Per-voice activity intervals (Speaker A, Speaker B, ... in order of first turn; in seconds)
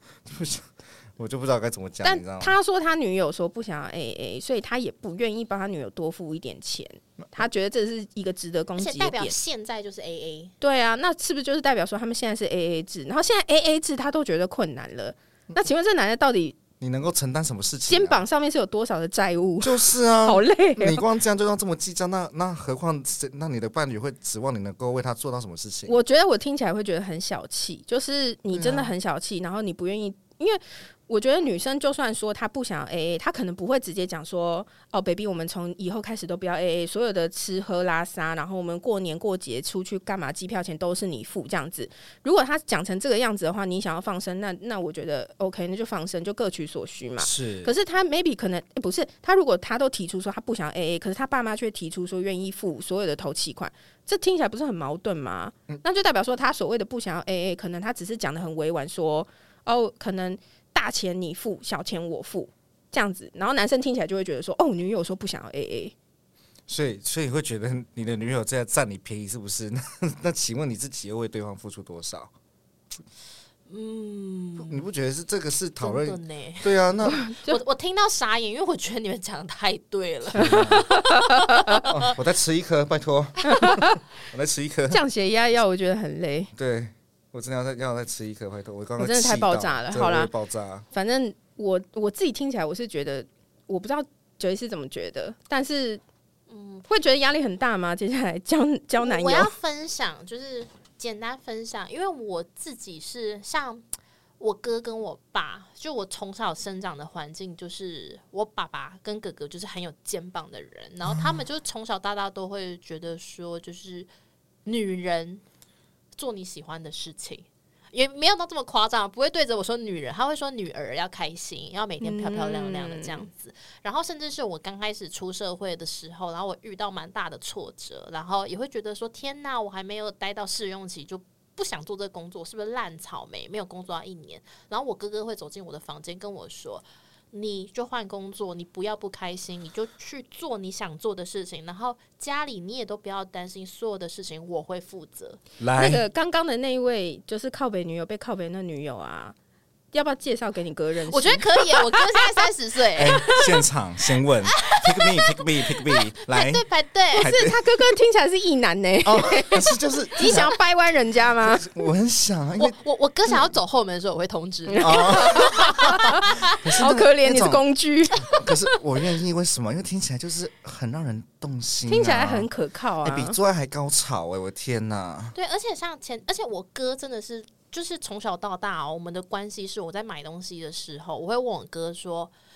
Speaker A: 0.2-2.5, 16.8-18.2, 19.6-26.0, 28.5-28.9, 47.2-47.7, 66.7-72.3, 74.6-77.3, 80.3-80.9, 81.9-85.0, 86.5-90.8, 145.6-146.0, 152.9-157.9, 159.0-160.6, 161.4-162.8, 164.8-167.6, 168.2-172.5, 173.0-175.3
Speaker B: 2.0-9.3, 10.6-16.6, 17.9-21.0, 25.9-65.9, 77.0-77.6, 80.3-81.8, 83.4-84.0, 84.9-86.5, 89.0-90.3, 90.9-96.0, 96.9-99.5, 122.0-123.3, 145.7-149.3, 149.9-152.4, 157.2-161.9, 164.7-168.4, 171.9-173.4
Speaker C: 8.8-10.5, 73.7-74.8, 75.8-76.7, 77.3-82.0, 96.5-96.8, 99.0-103.8, 104.4-114.1, 114.6-115.4, 116.2-145.4, 151.1-153.4, 154.5-157.3, 162.6-166.6, 175.3-182.3